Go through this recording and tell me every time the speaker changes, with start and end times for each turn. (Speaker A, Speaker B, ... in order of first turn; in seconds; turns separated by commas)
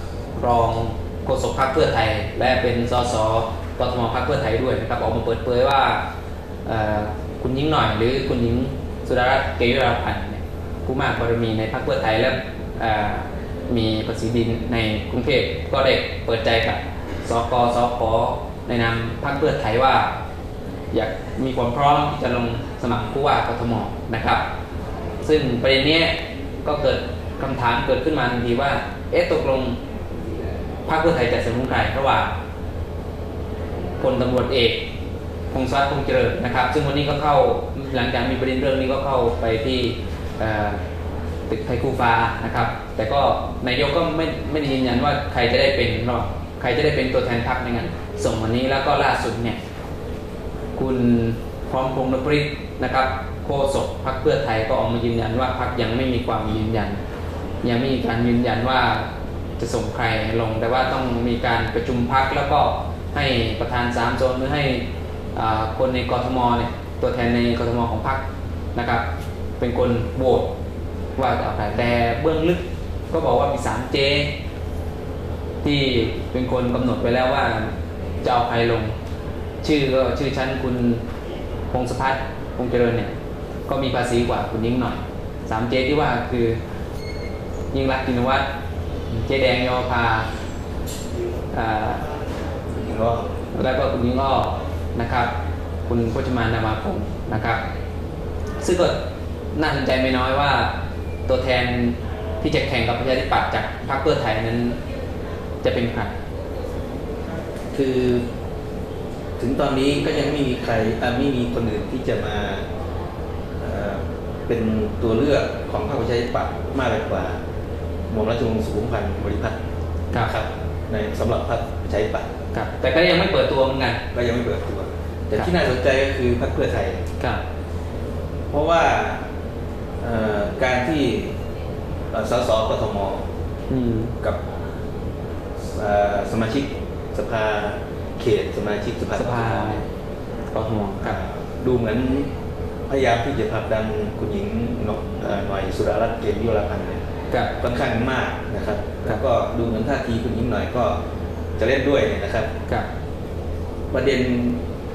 Speaker A: 0.3-6.0, Speaker A: 6.7-20.1, Speaker A: 20.9-24.4, Speaker A: 25.2-29.8, Speaker A: 30.9-32.3, Speaker A: 34.0-34.8, Speaker A: 35.5-40.8, Speaker A: 41.5-49.6, Speaker A: 50.8-57.0, Speaker A: 57.6-68.2, Speaker A: 68.7-69.0, Speaker A: 69.6-70.5, Speaker A: 71.2-74.3, Speaker A: 75.6-77.7, Speaker A: 78.2-78.9, Speaker A: 79.6-81.0, Speaker A: 81.7-83.1, Speaker A: 83.7-86.6, Speaker A: 87.7-88.5, Speaker A: 89.1-90.2, Speaker A: 91.5-92.0, Speaker B: 92.8-93.2, Speaker A: 93.5-95.3, Speaker A: 95.9-97.6, Speaker A: 98.6-99.0, Speaker A: 99.5-100.7, Speaker A: 101.3-104.8, Speaker A: 105.6-106.1, Speaker B: 107.7-108.2, Speaker B: 109.4-112.7, Speaker B: 113.6-117.4, Speaker B: 118.1-119.5, Speaker B: 120.1-122.3, Speaker A: 122.5-124.0, Speaker B: 124.1-127.0, Speaker B: 128.5-129.2, Speaker B: 130.0-131.3, Speaker B: 132.1-133.2, Speaker A: 133.7-134.1, Speaker B: 135.7-139.8, Speaker A: 139.2-139.8, Speaker A: 140.5-141.2, Speaker B: 141.0-142.3, Speaker B: 142.9-147.0, Speaker A: 147.3-147.6, Speaker B: 147.6-151.0, Speaker B: 151.6-152.5, Speaker B: 153.9-154.6